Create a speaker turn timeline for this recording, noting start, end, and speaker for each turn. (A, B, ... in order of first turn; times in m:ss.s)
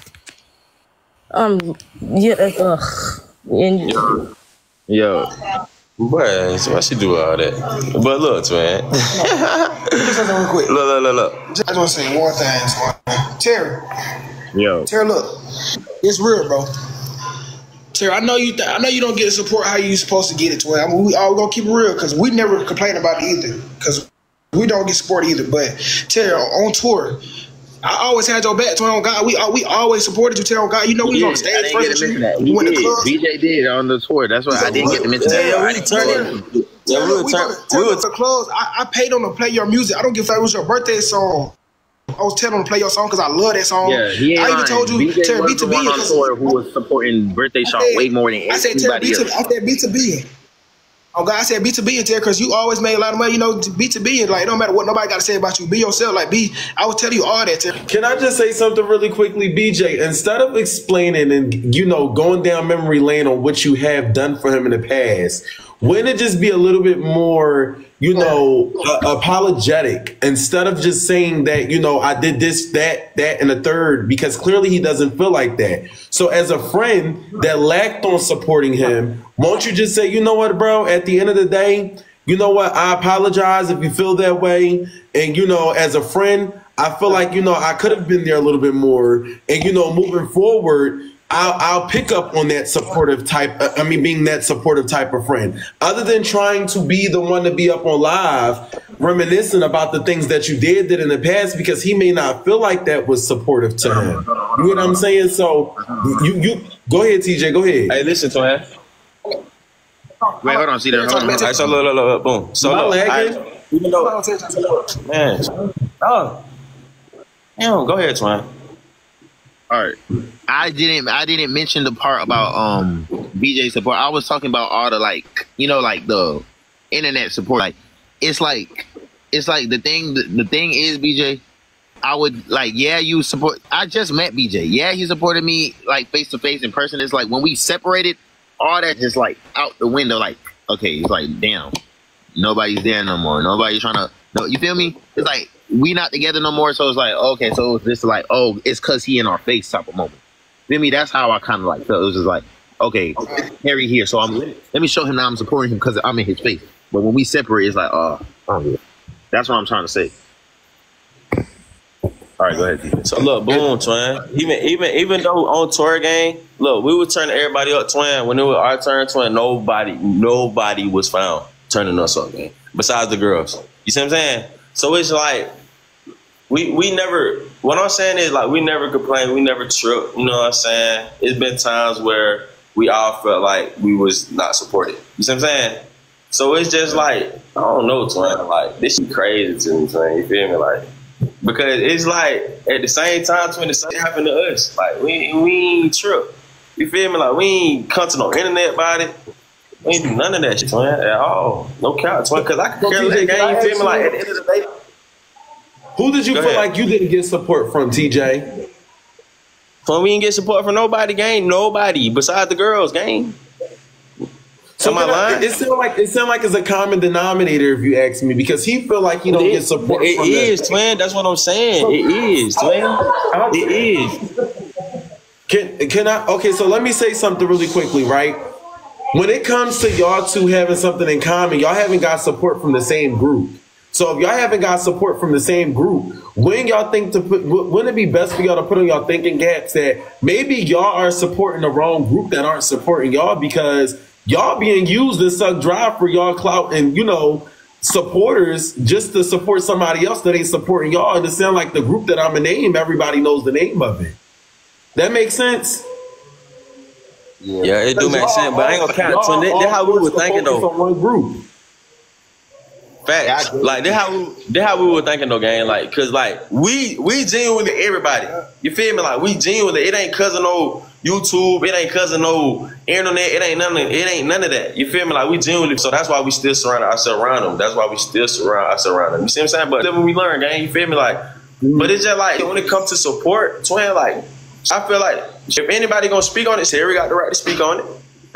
0:01.3-0:04.0 A
0:04.9-0:05.3 B
0:06.0-0:11.4 C
0:09.9-0:10.7 D
0:11.5-0:13.8 D
0:14.5-0:14.9 B
0:14.9-0:15.3 D
0:16.0-0:16.7 D
0:17.9-0:27.2 D
0:27.8-0:33.1 D
0:31.0-0:36.3 B
0:34.5-0:36.4 D
0:34.5-0:38.0 C
0:36.9-0:41.6 D
0:42.2-0:46.6 D
0:43.8-0:49.5 B
0:47.6-0:50.2 D
0:51.1-0:57.7 D
0:57.9-1:48.0 E
1:43.8-1:45.0 B
1:45.8-1:46.2 B
1:47.9-1:48.7 C
1:50.4-1:51.6 D
1:50.4-1:51.8 B
1:51.3-1:54.1 C
1:52.6-1:53.4 E
1:54.0-1:54.8 D
1:55.0-1:55.5 C
1:56.0-1:56.4 C
1:57.6-1:58.5 C
1:59.7-2:00.0 B
2:00.5-2:11.4 B
2:12.0-2:21.7 B
2:22.4-2:38.8 B
2:39.3-2:40.1 B
2:42.4-2:43.7 B
2:43.0-2:55.5 C
2:56.5-3:10.8 C
3:11.4-3:19.1 C
3:19.8-3:24.6 C
3:22.8-3:24.2 E
3:26.0-3:28.5 E
3:26.3-3:26.7 C
3:29.9-3:33.4 C
3:34.8-3:40.8 E
3:34.8-3:35.5 C
3:39.3-3:43.0 C
3:43.3-3:44.1 E
3:43.5-3:44.2 C
3:45.5-3:48.4 E
3:49.1-4:14.2 E
4:15.0-4:15.8 E
4:17.4-4:17.8 B
4:17.6-4:20.7 C
4:18.0-4:21.4 E
4:23.0-4:41.2 C
4:23.2-4:24.0 B
4:41.6-4:41.9 E
4:41.8-4:47.9 C